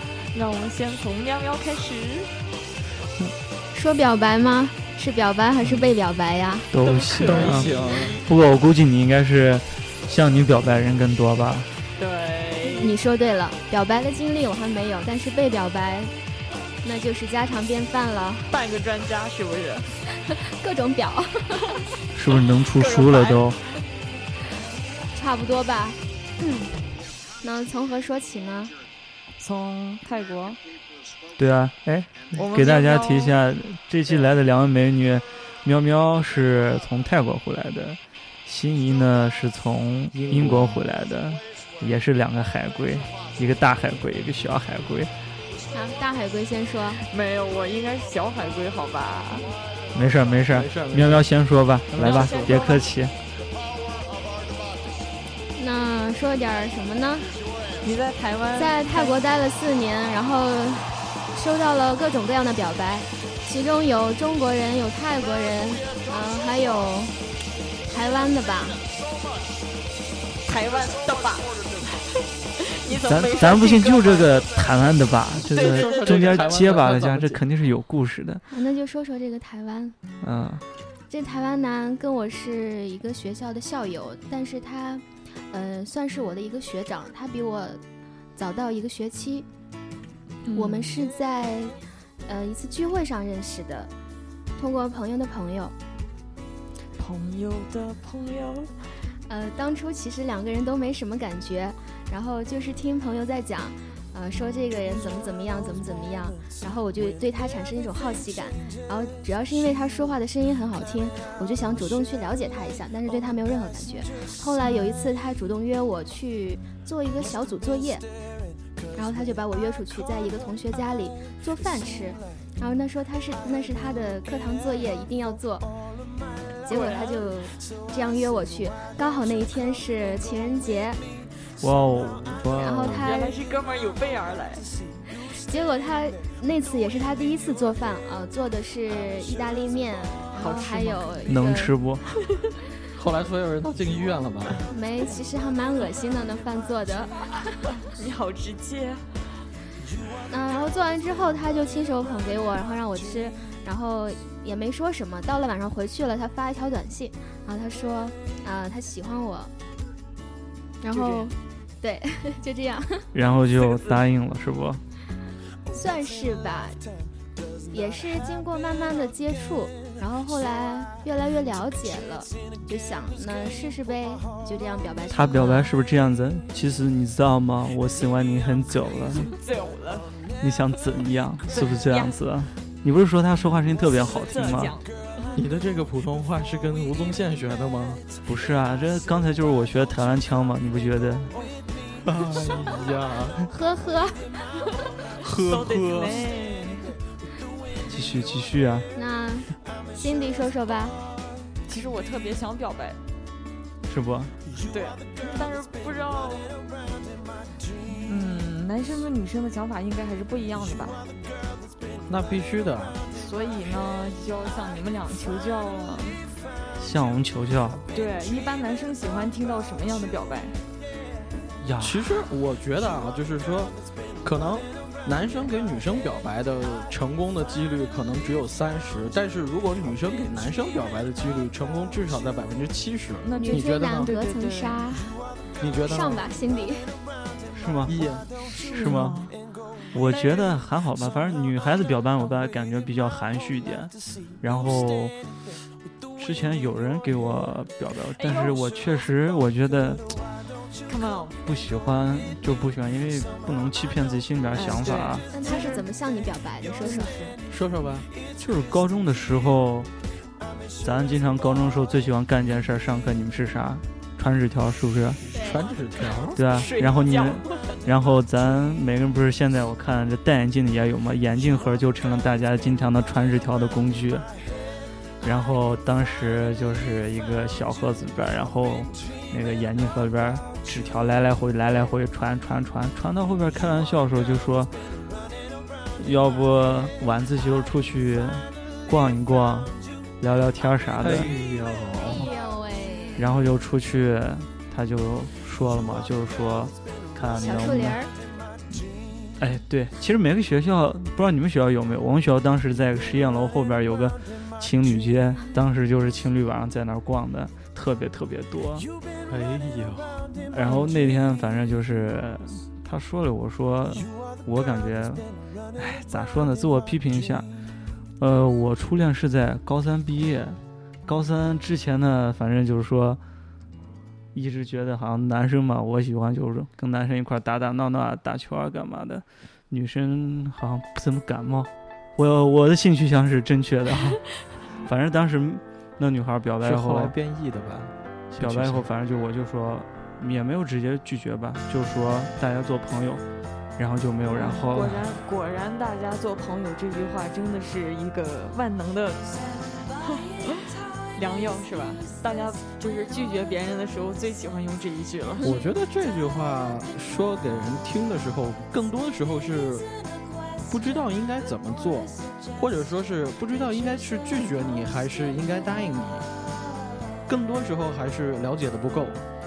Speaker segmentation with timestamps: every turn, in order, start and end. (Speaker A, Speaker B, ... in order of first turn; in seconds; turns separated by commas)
Speaker A: 0.3-2.3, Speaker B: 3.7-6.7, Speaker C: 6.7-7.7, Speaker A: 6.8-8.2, Speaker D: 7.2-8.2, Speaker C: 8.2-11.7, Speaker A: 12.0-12.9, Speaker B: 12.7-16.1, Speaker B: 16.8-18.5, Speaker A: 18.5-20.0, Speaker B: 20.2-21.6, Speaker C: 22.1-23.6, Speaker A: 22.7-23.4, Speaker B: 25.1-26.0, Speaker B: 27.4-28.8, Speaker A: 29.4-30.6, Speaker C: 31.4-45.1, Speaker A: 32.3-33.3, Speaker D: 40.1-40.8, Speaker B: 45.7-47.0, Speaker A: 47.0-49.5, Speaker C: 49.9-53.1, Speaker D: 50.5-51.3, Speaker D: 51.9-52.6, Speaker A: 52.0-52.9, Speaker B: 55.5-57.4, Speaker A: 57.8-59.2, Speaker B: 58.6-67.2, Speaker B: 67.9-68.8, Speaker A: 70.5-74.4, Speaker C: 73.1-78.4, Speaker A: 75.5-76.5, Speaker D: 75.6-77.4, Speaker B: 78.5-80.0, Speaker C: 80.2-80.6, Speaker B: 81.1-87.8, Speaker B: 88.4-89.5, Speaker A: 90.5-91.0, Speaker B: 90.5-91.7, Speaker B: 92.3-93.9, Speaker B: 94.6-95.8, Speaker A: 97.0-98.9, Speaker B: 99.3-118.0, Speaker B: 118.9-125.7, Speaker A: 126.7-127.2, Speaker B: 126.7-131.0, Speaker C: 131.6-132.4, Speaker D: 132.4-133.1, Speaker B: 132.6-133.4, Speaker A: 133.0-134.7, Speaker B: 135.3-141.8, Speaker A: 140.3-141.1, Speaker C: 141.3-142.1, Speaker D: 143.0-144.7, Speaker B: 144.7-147.2, Speaker A: 147.8-149.2, Speaker B: 150.3-159.5, Speaker B: 160.8-163.1, Speaker A: 160.9-161.3, Speaker C: 163.1-164.8, Speaker A: 163.6-164.0, Speaker B: 165.7-166.8, Speaker B: 167.7-175.7, Speaker C: 175.1-179.3, Speaker A: 175.3-175.7, Speaker A: 179.2-180.1, Speaker C: 180.4-184.7, Speaker A: 181.5-182.2, Speaker A: 184.1-184.9, Speaker D: 185.3-188.0, Speaker C: 188.3-191.3, Speaker A: 191.3-191.6, Speaker D: 192.0-193.5, Speaker B: 193.5-194.3, Speaker D: 195.2-196.2, Speaker A: 195.4-197.0, Speaker C: 197.9-198.9, Speaker B: 198.9-201.0, Speaker A: 201.7-203.0, Speaker C: 203.9-204.3, Speaker A: 204.7-206.5, Speaker A: 208.1-211.0, Speaker D: 212.1-213.0, Speaker A: 213.1-216.2, Speaker C: 216.8-217.8, Speaker A: 217.9-220.6, Speaker C: 221.6-222.1, Speaker D: 221.8-234.1, Speaker A: 233.2-234.9, Speaker B: 233.4-235.2, Speaker D: 235.6-236.3, Speaker B: 235.8-237.0, Speaker C: 237.5-238.0, Speaker D: 237.9-238.3, Speaker A: 238.4-239.4, Speaker C: 238.6-239.2, Speaker C: 239.9-245.2, Speaker C: 246.2-250.1, Speaker A: 248.2-248.7, Speaker A: 250.9-251.4, Speaker C: 251.4-255.3, Speaker A: 254.5-255.8, Speaker B: 255.3-257.1, Speaker A: 256.8-257.4, Speaker D: 257.5-258.1, Speaker C: 258.4-259.9, Speaker C: 260.8-265.2, Speaker B: 265.3-265.6, Speaker D: 265.4-266.4, Speaker C: 266.4-274.2, Speaker A: 266.5-267.8, Speaker C: 275.2-284.7, Speaker C: 286.0-291.3, Speaker D: 291.0-292.3, Speaker B: 292.0-293.3, Speaker C: 293.2-298.0, Speaker B: 297.4-298.1, Speaker C: 299.4-308.9, Speaker D: 309.3-310.1, Speaker C: 310.5-315.2, Speaker C: 315.8-317.5, Speaker C: 318.2-323.2, Speaker C: 324.3-337.1, Speaker D: 336.6-338.9, Speaker C: 338.4-343.2, Speaker C: 343.8-345.1, Speaker A: 344.3-349.3, Speaker A: 350.0-355.5, Speaker D: 355.4-359.9, Speaker D: 360.7-366.3, Speaker D: 367.3-369.2